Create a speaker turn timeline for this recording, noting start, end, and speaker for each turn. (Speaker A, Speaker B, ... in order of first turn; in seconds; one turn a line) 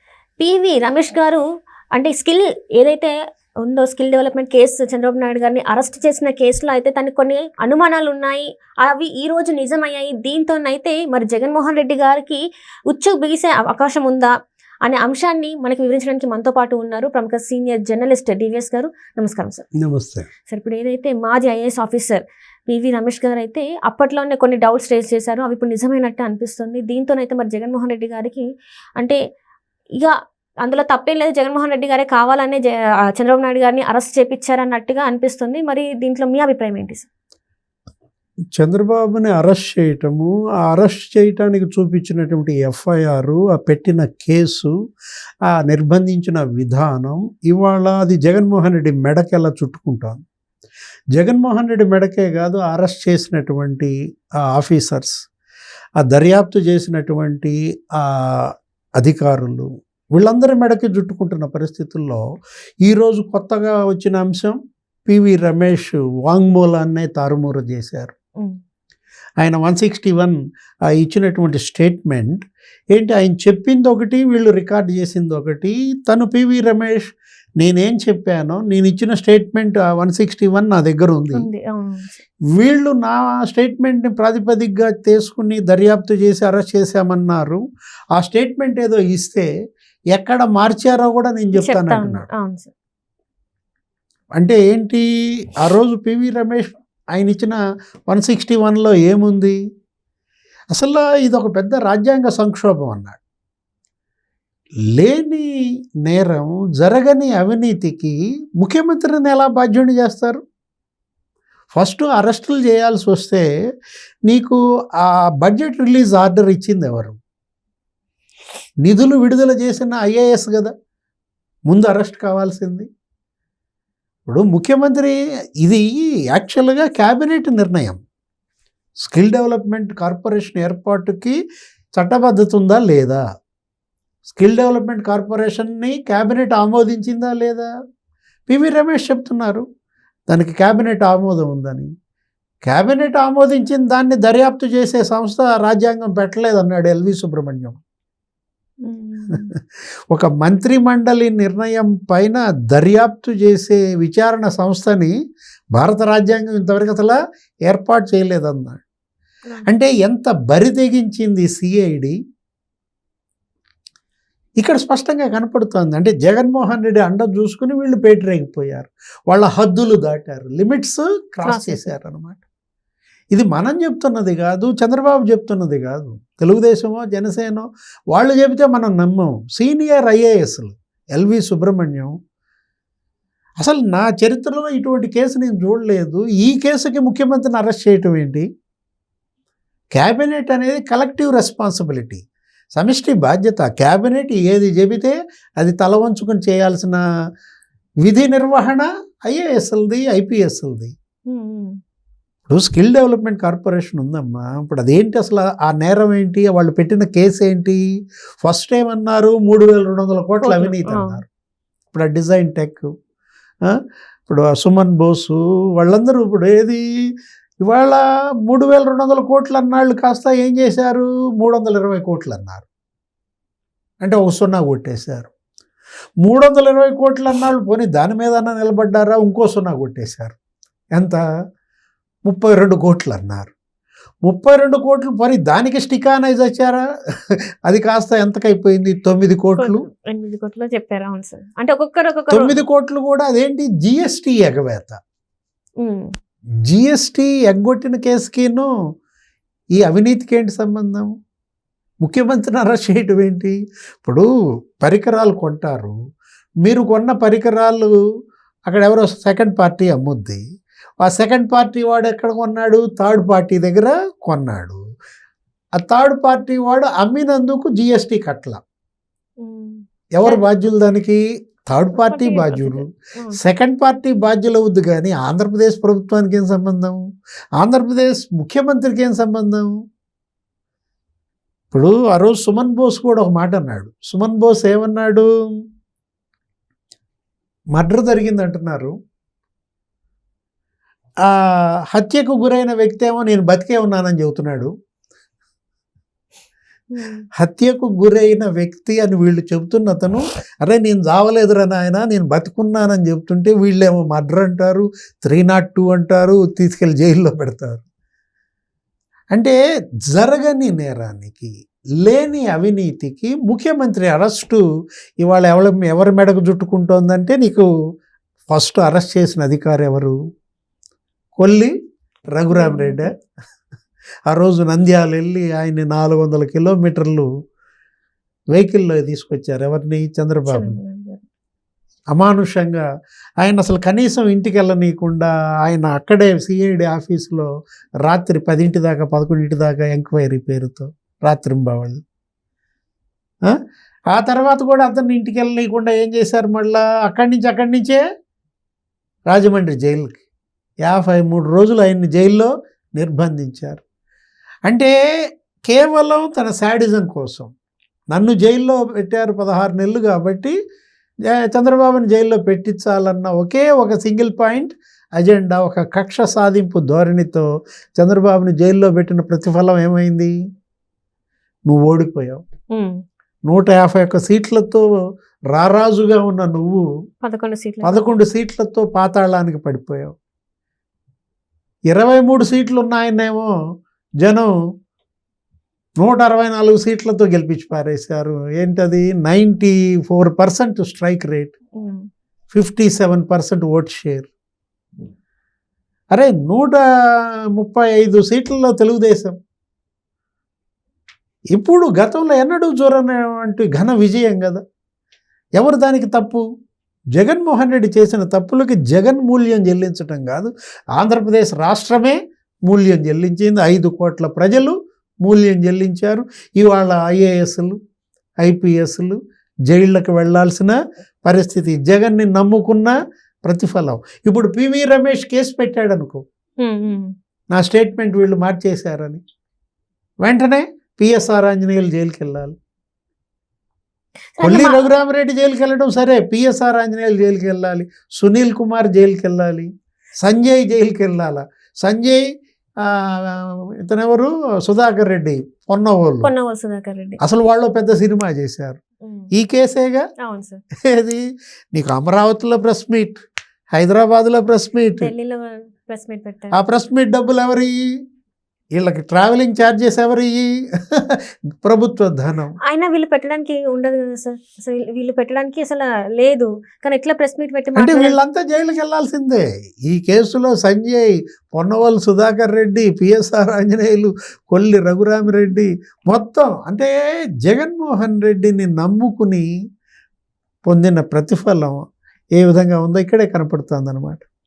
Speaker A: 0.4-1.4
Speaker A: 1.9-14.3
Speaker A: 14.8-19.6
Speaker B: 19.8-20.3
Speaker A: 20.5-28.4
Speaker A: 30.0-37.1
Speaker B: 38.5-44.7
Speaker B: 45.5-50.2
Speaker B: 51.1-53.9
Speaker B: 54.5-55.1
Speaker B: 56.0-62.2
Speaker B: 62.8-68.1
Speaker B: 69.4-70.3
Speaker B: 71.0-81.4
Speaker A: 81.3-82.2
Speaker B: 82.5-87.6
Speaker B: 88.1-89.5
Speaker B: 90.1-92.3
Speaker A: 91.5-92.7
Speaker B: 94.4-95.0
Speaker B: 95.6-97.6
Speaker B: 98.1-99.6
Speaker B: 100.7-103.2
Speaker B: 105.0-105.5
Speaker B: 106.0-110.4
Speaker B: 111.7-113.5
Speaker B: 114.3-117.2
Speaker B: 118.8-120.7
Speaker B: 121.7-122.9
Speaker B: 124.2-128.0
Speaker B: 129.0-131.3
Speaker B: 132.0-133.2
Speaker B: 134.3-137.7
Speaker B: 138.5-139.6
Speaker B: 140.3-141.9
Speaker B: 142.7-147.8
Speaker A: 148.8-149.5
Speaker B: 150.1-155.1
Speaker B: 155.7-157.2
Speaker B: 157.7-158.8
Speaker B: 159.7-162.2
Speaker B: 164.6-172.4
Speaker A: 171.4-171.9
Speaker B: 173.3-182.1
Speaker B: 183.6-188.5
Speaker B: 189.9-192.2
Speaker B: 192.7-197.0
Speaker B: 198.0-200.9
Speaker A: 201.3-201.8
Speaker B: 202.5-207.8
Speaker B: 208.4-211.2
Speaker A: 210.4-211.2
Speaker B: 211.9-212.9
Speaker B: 213.7-216.8
Speaker B: 217.6-222.6
Speaker B: 224.0-225.3
Speaker B: 226.2-230.3
Speaker B: 232.3-233.5
Speaker B: 234.2-236.8
Speaker B: 237.3-239.8
Speaker A: 239.6-242.6
Speaker B: 242.3-245.0
Speaker A: 245.8-246.1
Speaker B: 246.7-248.7
Speaker B: 249.8-251.1
Speaker B: 252.0-254.2
Speaker B: 254.8-255.9
Speaker B: 256.6-257.9
Speaker B: 258.7-260.4
Speaker B: 261.0-264.8
Speaker B: 265.8-268.6
Speaker A: 269.4-270.4
Speaker B: 270.2-277.0
Speaker A: 271.9-273.4
Speaker B: 277.6-279.7
Speaker B: 281.7-285.2
Speaker B: 287.7-288.9
Speaker B: 291.2-294.7
Speaker A: 296.9-297.2
Speaker B: 297.4-307.8
Speaker B: 310.1-311.5
Speaker B: 312.0-314.6
Speaker B: 315.2-317.7
Speaker B: 318.5-320.1
Speaker B: 321.4-321.7
Speaker B: 322.4-323.1
Speaker A: 322.5-323.1
Speaker B: 324.3-327.3
Speaker B: 328.5-330.8
Speaker A: 330.5-331.2
Speaker B: 332.1-332.8
Speaker B: 333.4-337.5
Speaker B: 338.1-342.0
Speaker B: 344.1-348.0
Speaker B: 349.3-350.2
Speaker B: 350.8-353.8
Speaker B: 355.7-357.5
Speaker B: 358.1-360.6
Speaker B: 361.3-367.4
Speaker B: 368.0-370.3
Speaker B: 371.7-372.4
Speaker A: 372.7-373.0
Speaker B: 373.5-374.8
Speaker B: 375.5-376.8
Speaker A: 377.2-378.1
Speaker B: 377.8-380.1
Speaker B: 381.9-383.5
Speaker B: 384.2-384.5
Speaker B: 386.0-391.5
Speaker A: 391.8-392.1
Speaker B: 392.5-394.3
Speaker B: 396.1-396.8
Speaker B: 397.5-399.4
Speaker B: 401.5-404.6
Speaker B: 405.6-406.4
Speaker B: 407.1-417.8
Speaker B: 418.4-419.2
Speaker B: 419.7-422.9
Speaker B: 423.4-426.2
Speaker A: 426.6-427.1
Speaker B: 427.5-429.2
Speaker B: 430.2-432.5
Speaker A: 434.3-434.8
Speaker B: 434.4-439.7
Speaker B: 440.2-442.2
Speaker B: 442.8-446.3
Speaker A: 446.2-447.2
Speaker B: 447.2-448.8
Speaker A: 449.0-449.3
Speaker B: 449.3-450.0
Speaker A: 450.2-450.6
Speaker B: 450.8-451.2
Speaker B: 451.7-453.2
Speaker B: 453.7-455.1
Speaker A: 455.0-456.5
Speaker B: 456.5-457.7
Speaker B: 458.7-462.5
Speaker A: 462.6-468.1
Speaker B: 467.8-476.9
Speaker A: 475.3-475.6
Speaker B: 477.4-479.5
Speaker B: 480.7-481.8
Speaker B: 482.4-484.2